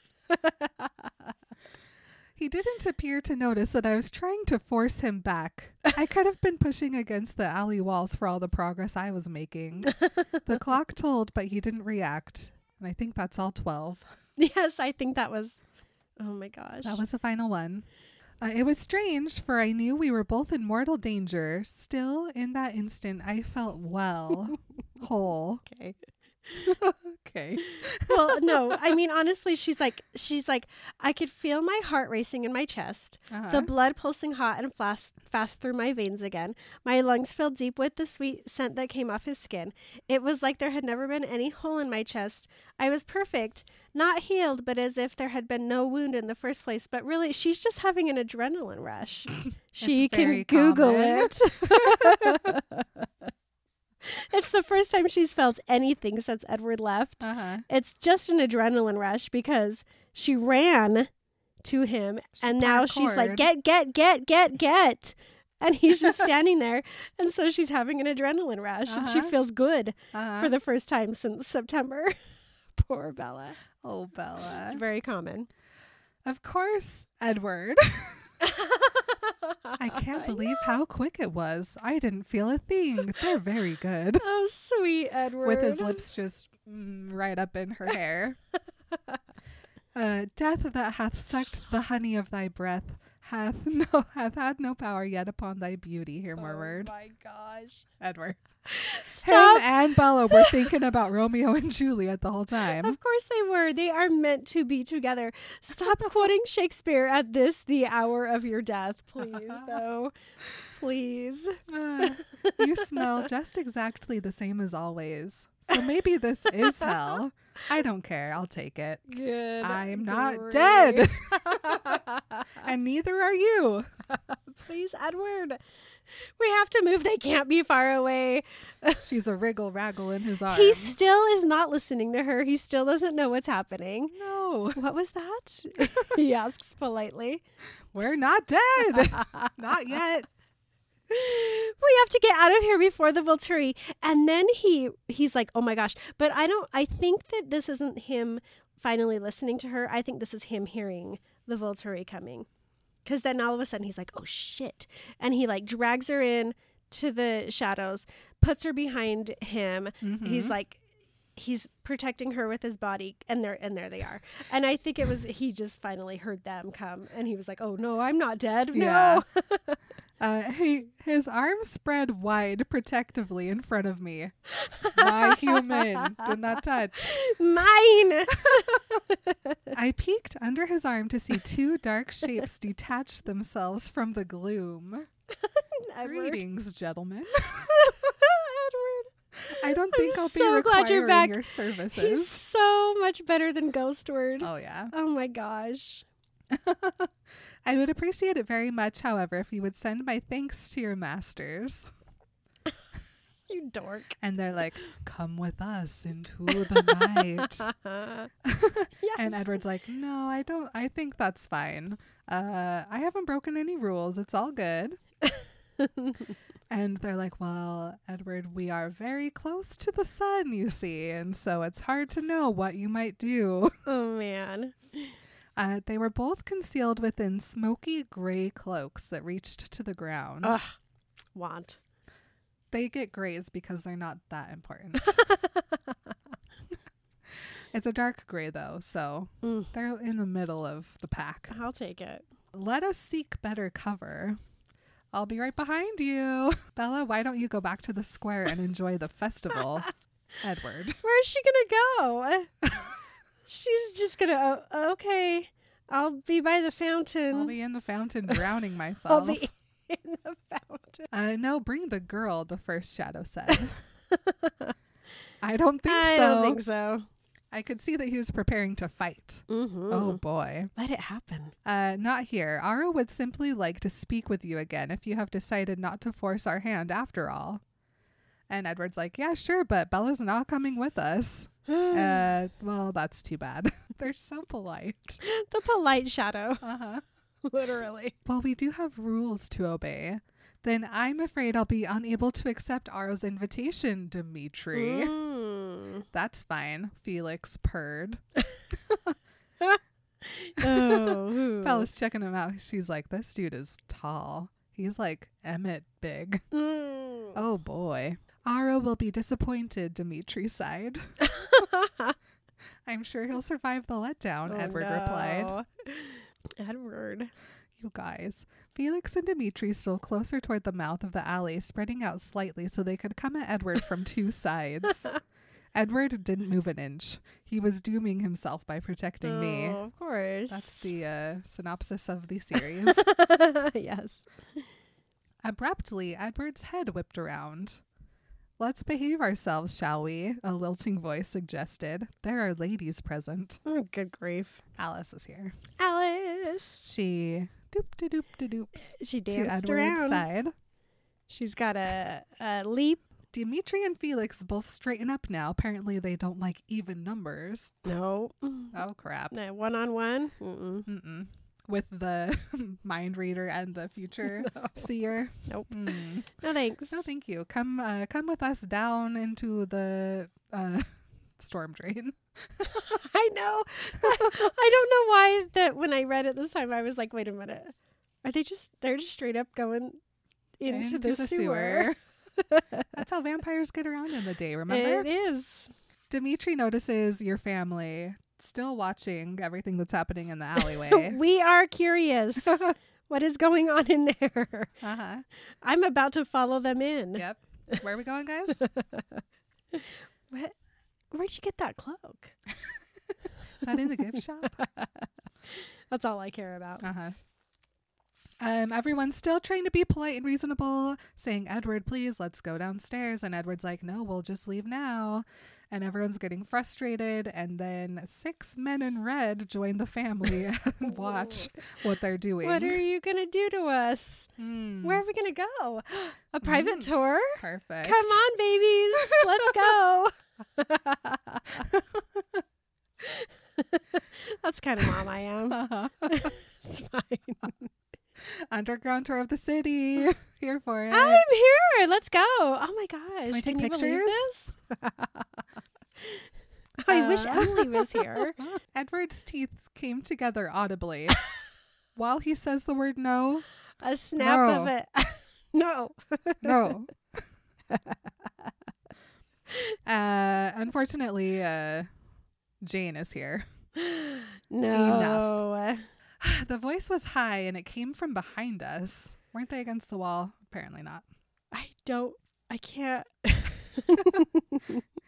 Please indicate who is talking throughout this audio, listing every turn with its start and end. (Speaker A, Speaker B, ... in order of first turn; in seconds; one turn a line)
Speaker A: 0.3-1.1
Speaker B: 2.4-14.1
Speaker A: 9.9-10.3
Speaker A: 14.4-15.6
Speaker A: 16.2-17.0
Speaker B: 16.8-17.8
Speaker B: 18.4-25.6
Speaker A: 25.6-26.8
Speaker B: 26.6-28.8
Speaker A: 27.6-53.3
Speaker B: 33.3-33.7
Speaker B: 49.8-52.6
Speaker A: 54.0-61.1
Speaker B: 57.2-57.6
Speaker A: 61.6-72.1
Speaker B: 62.4-63.5
Speaker B: 68.9-69.3
Speaker B: 70.1-70.5
Speaker A: 72.7-73.6
Speaker B: 73.8-74.8
Speaker A: 74.6-75.5
Speaker B: 76.2-78.2
Speaker A: 78.4-80.7
Speaker B: 79.8-84.2
Speaker A: 84.2-86.0
Speaker B: 85.4-88.4
Speaker B: 89.9-96.9
Speaker A: 96.4-97.9
Speaker B: 98.0-98.4
Speaker A: 98.7-100.7
Speaker B: 99.2-103.0
Speaker A: 102.7-113.2
Speaker B: 109.3-109.8
Speaker B: 111.7-119.0
Speaker A: 119.1-122.6
Speaker B: 119.6-122.0
Speaker B: 122.6-123.9
Speaker A: 124.1-125.6
Speaker A: 126.1-129.0
Speaker B: 129.0-131.0
Speaker A: 130.5-134.1
Speaker B: 134.1-134.8
Speaker A: 134.8-137.4
Speaker B: 137.9-140.3
Speaker A: 139.1-139.5
Speaker A: 141.1-152.5
Speaker A: 153.0-160.8
Speaker B: 160.0-160.5
Speaker A: 161.3-169.8
Speaker B: 168.7-169.2
Speaker B: 170.2-174.3
Speaker A: 174.6-176.3
Speaker B: 174.9-177.2
Speaker A: 177.0-179.6
Speaker B: 178.3-178.8
Speaker B: 179.7-185.1
Speaker A: 185.3-186.4
Speaker B: 186.0-187.7
Speaker A: 187.4-196.1
Speaker B: 189.4-192.4
Speaker B: 194.4-194.9
Speaker B: 196.5-197.1
Speaker B: 197.6-201.9
Speaker A: 203.5-204.2
Speaker B: 204.2-207.7
Speaker A: 206.5-208.3
Speaker B: 208.4-215.0
Speaker A: 209.0-209.5
Speaker A: 215.2-216.3
Speaker B: 216.7-223.7
Speaker A: 223.8-225.1
Speaker B: 225.6-230.6
Speaker A: 230.4-230.7
Speaker A: 231.3-231.8
Speaker B: 232.7-235.2
Speaker A: 235.0-235.9
Speaker B: 237.7-241.5
Speaker A: 239.4-239.7
Speaker A: 241.5-242.3
Speaker B: 242.5-244.4
Speaker B: 245.1-249.9
Speaker B: 250.4-251.0
Speaker A: 251.0-252.7
Speaker A: 253.4-257.5
Speaker B: 257.3-259.4
Speaker A: 259.1-261.1
Speaker B: 261.1-263.8
Speaker A: 264.1-264.7
Speaker B: 265.4-266.6
Speaker A: 265.9-267.0
Speaker B: 267.5-270.7
Speaker A: 269.5-270.2
Speaker A: 270.7-271.5
Speaker B: 271.6-277.6
Speaker B: 278.5-285.2
Speaker A: 281.7-282.2
Speaker A: 285.2-286.6
Speaker B: 286.6-287.0
Speaker A: 287.4-288.1
Speaker B: 288.2-295.1
Speaker A: 294.7-296.1
Speaker B: 296.1-298.2
Speaker B: 298.9-299.1
Speaker A: 299.6-301.9
Speaker B: 300.6-306.4
Speaker A: 306.5-307.4
Speaker B: 307.3-311.1
Speaker A: 311.2-312.1
Speaker B: 312.8-315.6
Speaker A: 314.5-317.3
Speaker B: 317.8-325.1
Speaker B: 325.7-329.8
Speaker A: 329.2-330.9
Speaker B: 330.5-333.1
Speaker A: 332.6-334.6
Speaker B: 335.4-337.8
Speaker B: 338.6-343.6
Speaker A: 343.6-344.6
Speaker B: 344.8-345.6
Speaker A: 345.8-346.9
Speaker B: 346.8-350.5
Speaker A: 348.8-350.2
Speaker A: 351.3-353.0
Speaker B: 353.3-357.9
Speaker A: 357.8-358.8
Speaker B: 358.7-359.3
Speaker A: 359.3-360.9
Speaker B: 360.9-366.4
Speaker A: 364.3-364.9
Speaker A: 365.5-367.0
Speaker B: 366.9-372.7
Speaker A: 372.6-380.0
Speaker B: 374.0-374.4
Speaker A: 380.6-382.9
Speaker B: 380.7-381.9
Speaker B: 382.9-385.1
Speaker A: 384.7-385.7
Speaker B: 386.1-391.2
Speaker A: 390.6-394.7
Speaker B: 394.8-395.2
Speaker A: 395.6-397.8
Speaker B: 397.1-398.6
Speaker A: 398.6-399.2
Speaker A: 399.7-400.5
Speaker A: 401.1-402.3
Speaker B: 403.6-404.6
Speaker A: 403.7-406.9
Speaker B: 406.8-407.2
Speaker B: 408.4-422.8
Speaker A: 420.9-421.6
Speaker A: 422.4-424.3
Speaker B: 424.4-425.0
Speaker A: 424.8-431.7
Speaker B: 426.4-428.2
Speaker B: 428.9-429.6
Speaker B: 431.6-432.4
Speaker A: 433.0-437.7
Speaker B: 435.5-436.3
Speaker B: 438.3-441.2
Speaker A: 440.9-445.3
Speaker B: 443.3-444.3
Speaker A: 446.0-446.3
Speaker A: 446.8-448.4
Speaker B: 446.9-451.2
Speaker B: 451.9-453.4
Speaker A: 453.8-456.7
Speaker B: 454.2-454.7
Speaker B: 456.4-457.2
Speaker A: 457.7-458.5
Speaker B: 459.9-461.9
Speaker B: 462.6-463.5
Speaker A: 463.8-465.9
Speaker B: 464.7-465.4
Speaker B: 466.2-471.0
Speaker A: 471.5-474.8